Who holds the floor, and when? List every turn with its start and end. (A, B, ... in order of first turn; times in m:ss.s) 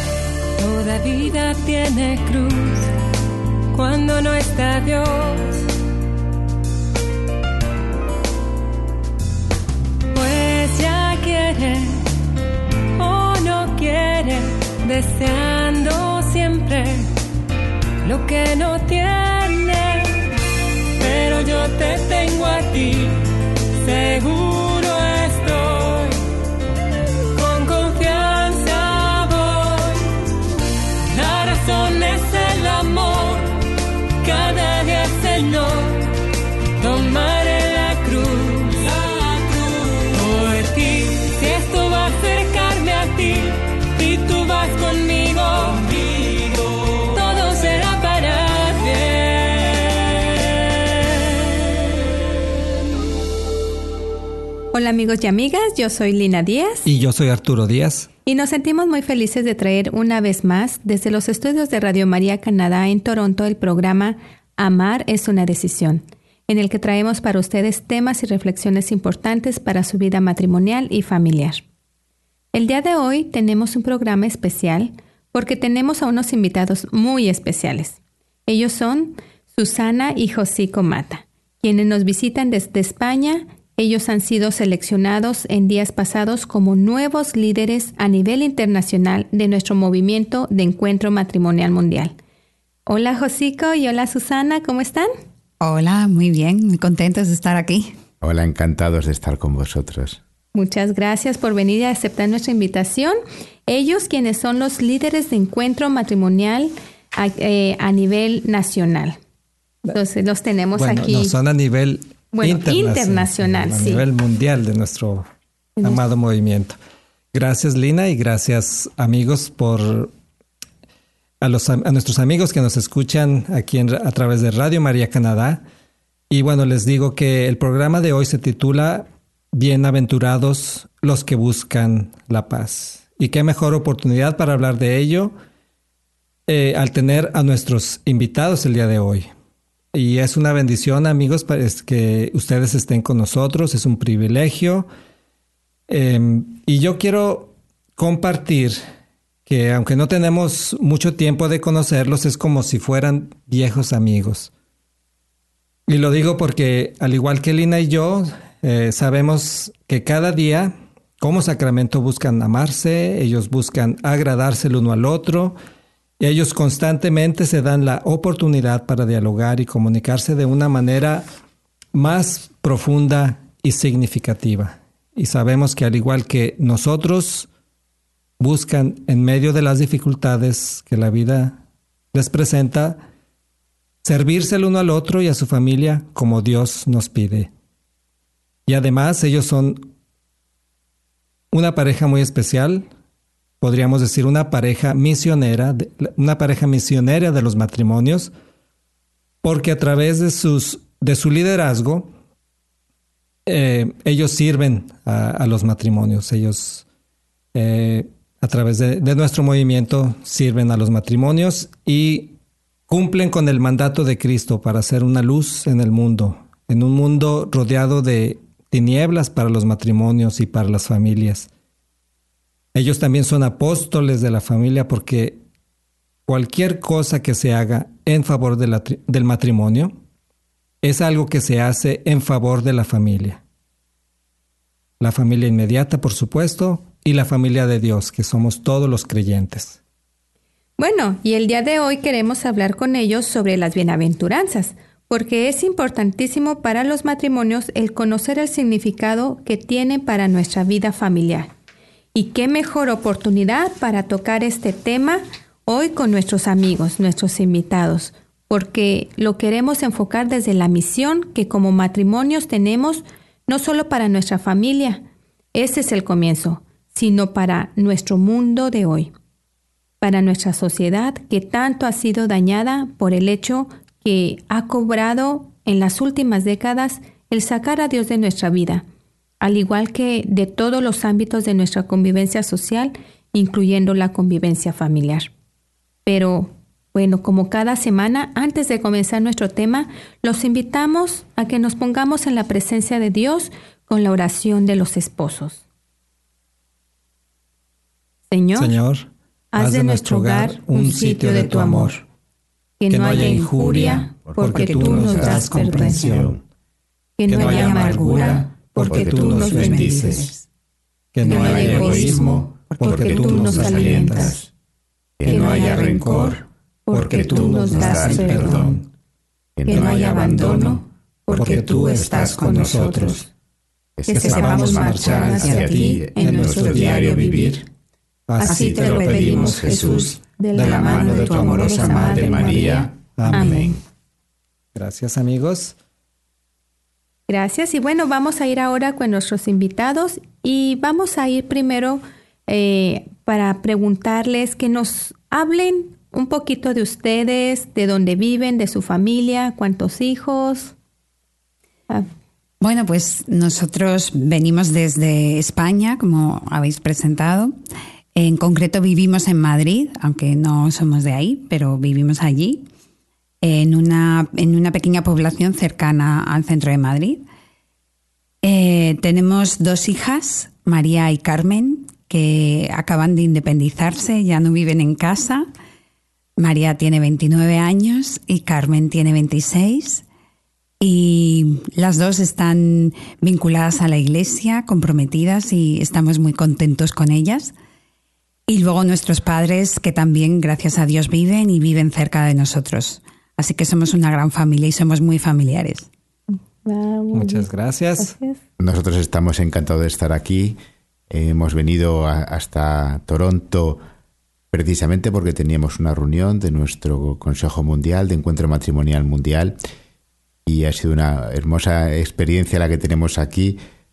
0:00.6-0:02.9 A
0:03.7-0:05.7 A
0:10.1-0:12.1 A
0:13.0-0:17.1 A
0:18.0-0:20.3 A
0:21.0-0:26.2 A
0:27.3-0:30.2 A
0:31.1-0:36.2 A
0:36.8-0:46.3 A
0:46.9-0:50.6 A
0:54.7-0:56.9 B
0:56.8-0:58.1 C
0:58.2-1:11.6 B
1:12.5-1:32.1 B
1:32.8-1:35.1 B
1:35.6-1:38.0 D
1:38.2-1:40.2 E
1:40.5-1:49.2 B
1:49.9-1:51.4 B
1:50.8-1:55.3 C
1:52.3-1:54.0 B
1:55.8-1:56.0 B
1:55.8-1:56.8 C
1:57.3-2:00.1 C
2:01.4-2:05.6 C
2:06.3-2:15.3 C
2:16.5-2:19.3 C
2:19.9-2:24.9 C
2:25.9-2:28.8 C
2:29.5-2:34.5 C
2:35.9-2:45.6 C
2:46.2-2:51.2 C
2:51.9-2:57.5 C
2:58.4-3:01.6 C
3:02.1-3:03.0 C
3:04.0-3:07.5 C
3:08.7-3:09.9 C
3:11.5-3:12.9 C
3:13.6-3:18.3 C
3:19.4-3:22.1 C
3:23.4-3:26.8 C
3:27.5-3:32.4 C
3:32.9-3:41.5 C
3:42.7-3:45.4 C
3:46.3-3:49.9 C
3:50.8-3:53.4 C
3:55.0-3:59.8 C
4:00.8-4:11.5 B
4:12.1-4:25.0 B
4:25.5-4:29.1 B
4:30.0-4:38.8 B
4:39.4-4:45.3 B
4:46.0-4:55.6 B
4:58.3-4:58.8 B
4:58.6-5:02.0 C
4:59.5-5:02.0 B
5:02.8-5:06.1 B
5:02.9-5:06.4 C
5:04.5-5:06.4 E
5:07.2-5:10.5 B
5:07.3-5:10.3 C
5:07.4-5:10.3 E
5:11.1-5:14.4 C
5:11.2-5:14.4 E
5:11.2-5:14.4 B
5:15.2-5:16.4 E
5:15.3-5:16.4 C
5:15.3-5:18.8 B
5:16.9-5:18.9 C
5:16.9-5:18.8 E
5:19.6-5:20.8 E
5:19.7-5:23.2 B
5:19.7-5:23.3 C
5:21.3-5:23.2 E
5:24.0-5:27.6 E
5:24.0-5:27.6 B
5:24.1-5:27.6 C
5:28.3-5:33.8 C
5:28.4-5:33.7 B
5:28.5-5:33.8 E
5:28.6-5:29.2 D
5:34.7-5:35.8 C
5:37.3-5:50.7 B
5:52.6-5:57.5 D
5:58.1-6:02.6 D
6:03.4-6:07.2 D
6:08.4-6:15.4 D
6:16.4-6:20.0 D
6:20.8-6:27.5 D
6:28.5-6:35.9 D
6:36.3-6:38.4 B
6:37.1-6:38.1 C
6:38.6-6:40.6 E
6:41.1-6:43.8 E
6:44.5-6:49.6 E
6:50.4-6:53.6 E